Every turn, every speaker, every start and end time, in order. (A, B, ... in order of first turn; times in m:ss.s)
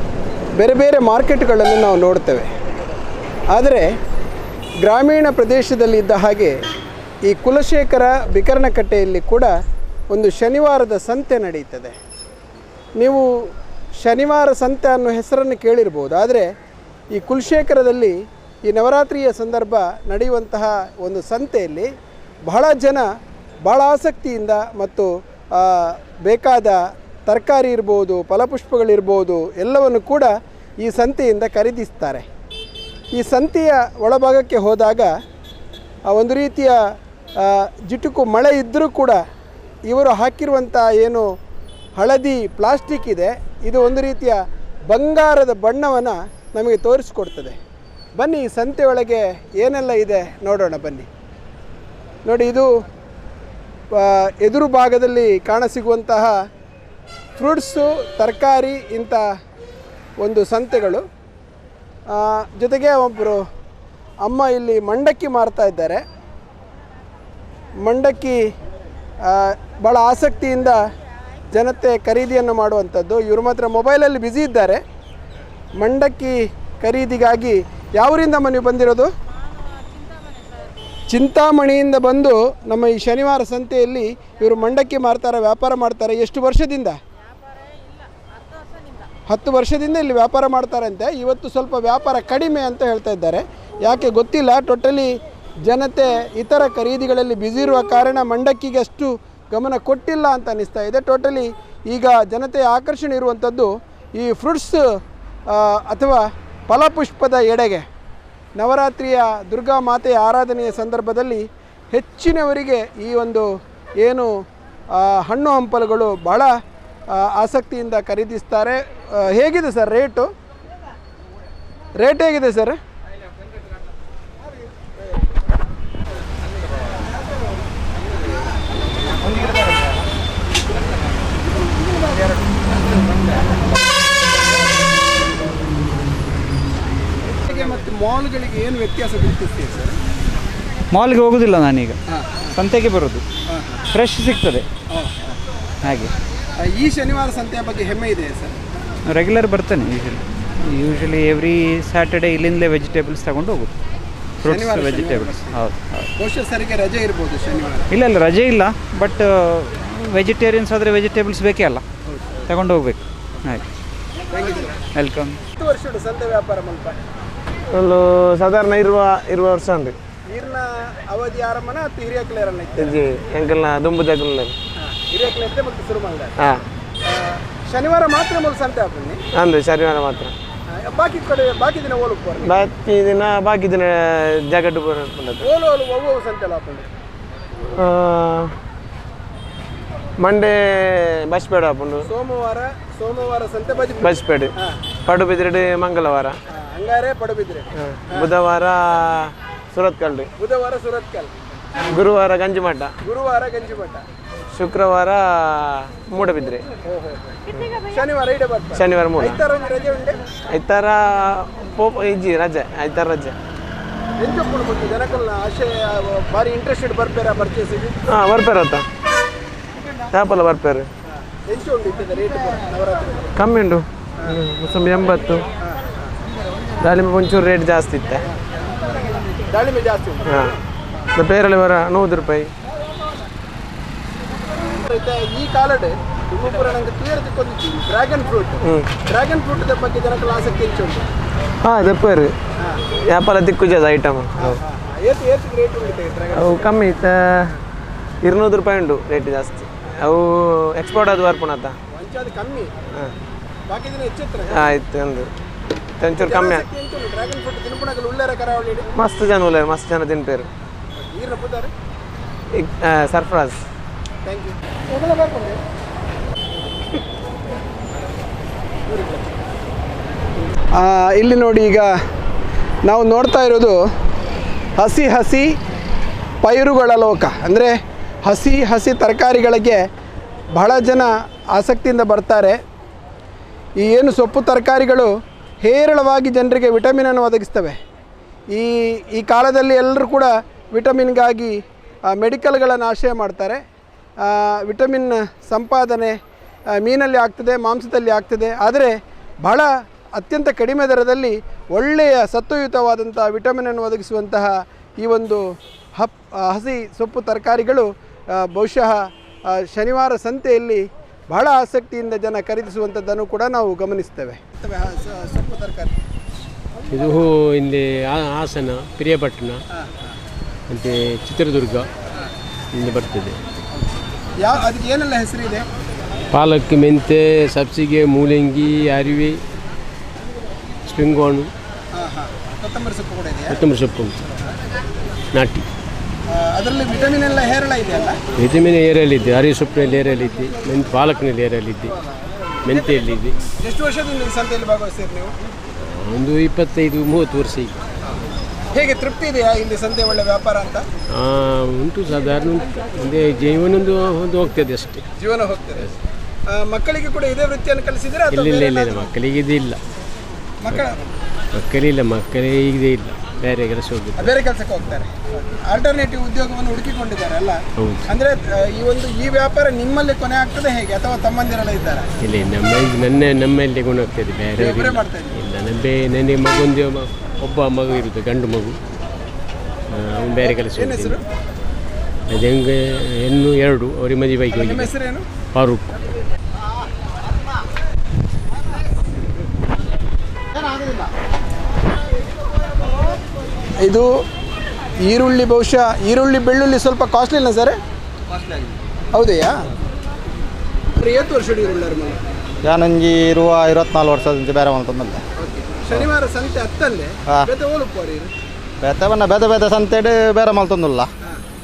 0:00.6-0:02.5 A
0:03.5-0:03.9 A
0:04.8-0:06.6 A
0:07.2-0:09.5 A
0:10.1-0:12.0 A
0:13.0-0:16.5 A
0:17.1-0:21.9 A
0:22.5-0:23.1 A
0:23.6-0:30.3 A
0:30.8-0:32.2 A
0:33.1-0:35.1 A
0:36.1-0:36.8 A
0:37.4-0:39.2 A
0:39.9-0:41.3 A
0:42.0-0:47.6 A
0:48.2-0:51.1 A
0:52.2-0:52.7 A
0:53.9-0:56.4 A
0:57.4-0:59.2 A
1:00.2-1:01.1 A
1:02.1-1:03.4 A
1:04.2-1:06.0 A
1:07.8-1:08.5 A
1:09.2-1:10.8 A
1:11.5-1:14.8 A
1:15.8-1:19.1 A
1:21.1-1:27.0 A
1:29.3-1:44.8 A
1:45.5-1:47.9 A
1:48.6-1:53.5 A
1:54.0-1:54.3 A
1:54.9-1:56.5 A
1:57.1-2:00.3 A
2:02.0-2:02.8 A
2:17.4-2:20.0 A
2:20.9-2:22.0 B
2:22.1-2:22.5 A
2:22.5-2:23.2 B
2:23.5-2:23.8 A
2:23.9-2:24.7 B
2:24.9-2:25.3 A
2:25.8-2:26.1 B
2:26.6-2:28.6 A
2:29.1-2:33.7 B
2:34.4-2:35.6 A
2:34.4-2:36.1 B
2:36.2-2:37.9 A
2:37.9-2:41.8 B
2:42.1-2:42.4 A
2:42.5-2:43.7 B
2:44.3-2:44.8 A
2:44.9-2:45.4 B
2:45.6-2:47.0 A
2:47.7-2:50.0 C
2:50.3-2:53.0 A
2:52.8-2:54.6 C
2:54.8-2:56.4 A
2:56.4-2:56.6 C
2:57.0-2:59.2 A
2:59.3-3:00.3 C
3:00.7-3:02.7 A
3:02.4-3:05.5 C
3:05.4-3:06.9 A
3:07.8-3:08.6 C
3:10.2-3:12.1 C
3:12.0-3:14.8 A
3:14.0-3:14.5 C
3:15.1-3:16.4 C
3:16.5-3:18.3 A
3:17.8-3:20.3 C
3:20.4-3:21.3 A
3:21.9-3:23.0 C
3:23.0-3:24.0 A
3:24.5-3:26.6 C
3:26.8-3:30.2 A
3:28.7-3:29.4 C
3:30.5-3:33.4 C
3:34.2-3:38.0 A
3:38.1-3:38.8 C
3:40.1-3:40.9 C
3:41.1-3:43.3 A
3:43.4-3:45.5 C
3:45.6-3:45.9 A
3:46.8-3:48.2 C
3:49.4-3:50.6 A
3:50.3-3:50.6 C
3:51.2-3:52.5 C
3:54.6-4:01.0 A
3:58.6-3:58.9 C
4:01.6-4:02.3 C
4:03.1-4:04.6 C
4:04.4-4:06.7 A
4:06.3-4:07.6 C
4:08.2-4:11.8 C
4:11.9-4:12.7 A
4:13.7-4:14.7 A
4:14.5-4:15.3 C
4:16.0-4:16.7 C
4:16.2-4:18.9 A
4:19.0-4:20.5 C
4:21.0-4:21.7 A
4:22.6-4:23.6 C
4:24.2-4:25.6 A
4:28.9-4:29.3 A
4:30.7-4:31.9 A
4:32.8-4:33.8 A
4:34.8-4:35.5 A
4:36.4-4:39.9 A
4:40.5-4:42.6 A
4:43.8-4:47.8 A
4:48.5-4:53.6 A
4:54.2-4:56.2 A
4:56.8-5:05.4 A
5:06.0-5:16.0 A
5:16.9-5:19.6 D
5:20.7-5:21.9 D
5:22.7-5:23.4 D
5:24.4-5:25.6 A
5:26.3-5:29.4 D
5:30.9-5:31.5 D
5:31.9-5:33.6 A
5:33.5-5:34.2 D
5:35.3-5:35.6 D
5:36.3-5:38.2 A
5:38.4-5:42.0 D
5:42.6-5:43.4 D
5:43.6-5:45.4 A
5:46.0-5:47.8 D
5:48.7-5:50.9 A
5:51.2-5:55.0 D
5:55.2-5:55.9 A
5:56.5-5:59.1 A
5:58.3-5:59.8 D
6:00.6-6:01.1 A
6:01.6-6:04.4 D
6:04.2-6:12.1 A
6:12.2-6:18.8 D
6:14.6-6:15.4 A
6:19.9-6:21.2 D
6:20.4-6:21.2 A
6:22.3-6:24.9 D
6:24.5-6:25.3 A
6:25.5-6:25.9 D
6:30.5-6:31.1 E
6:33.8-6:34.1 A
6:35.0-6:37.8 A
6:38.3-6:38.7 E
6:39.1-6:39.6 A
6:41.0-6:42.2 A
6:42.6-6:45.2 E
6:45.4-6:48.3 A
6:48.8-6:51.1 E